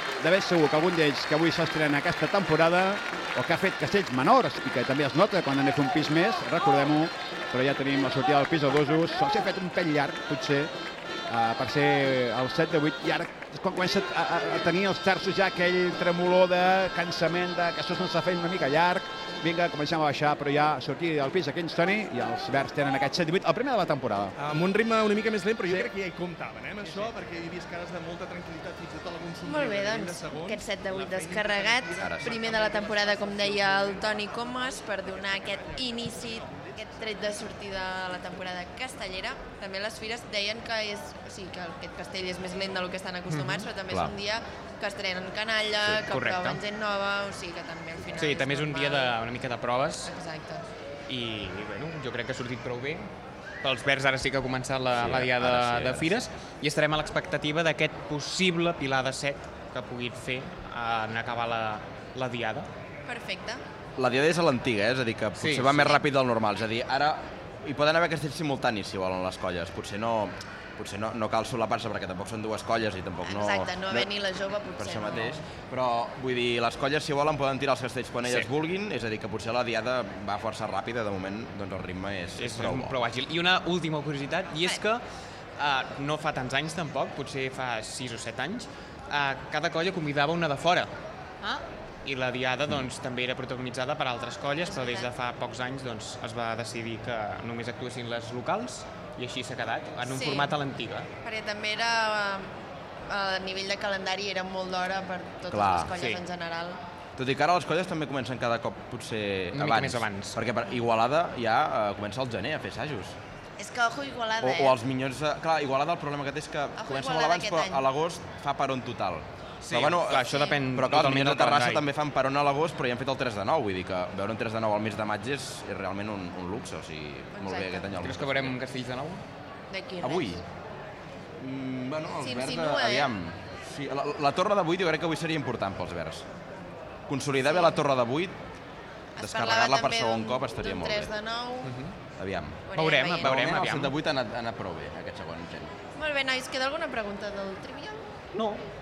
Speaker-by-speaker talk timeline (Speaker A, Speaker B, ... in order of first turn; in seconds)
Speaker A: 0.2-10.7, 11.3-24.3
Speaker B: 24.4-34.0, 35.5-36.7
Speaker C: 29.4-49.2, 50.0-50.7, 63.1-63.6, 73.2-75.4, 94.7-95.1, 100.1-100.5, 101.2-102.5, 103.1-106.8, 113.6-114.8, 116.8-117.9, 127.3-128.0, 129.7-130.4, 132.2-133.2, 137.5-137.8, 139.2-141.8, 142.7-143.3, 146.0-148.1
Speaker D: 32.0-32.4, 54.9-56.1, 64.0-74.1, 74.8-83.0, 105.5-105.9, 107.2-113.2, 114.4-128.6, 130.0-130.4, 131.4-136.3, 137.1-138.4, 139.2-141.1, 142.2-142.6, 143.2-145.7
Speaker E: 43.3-43.7, 46.0-46.6, 48.2-50.1, 51.1-53.1, 53.6-62.7, 65.4-66.0, 78.2-78.5, 82.4-85.0, 85.6-90.9, 91.5-101.1, 106.0-106.2, 109.5-110.4, 119.6-121.9, 128.0-129.2, 141.6-141.9, 142.7-143.9, 148.3-148.6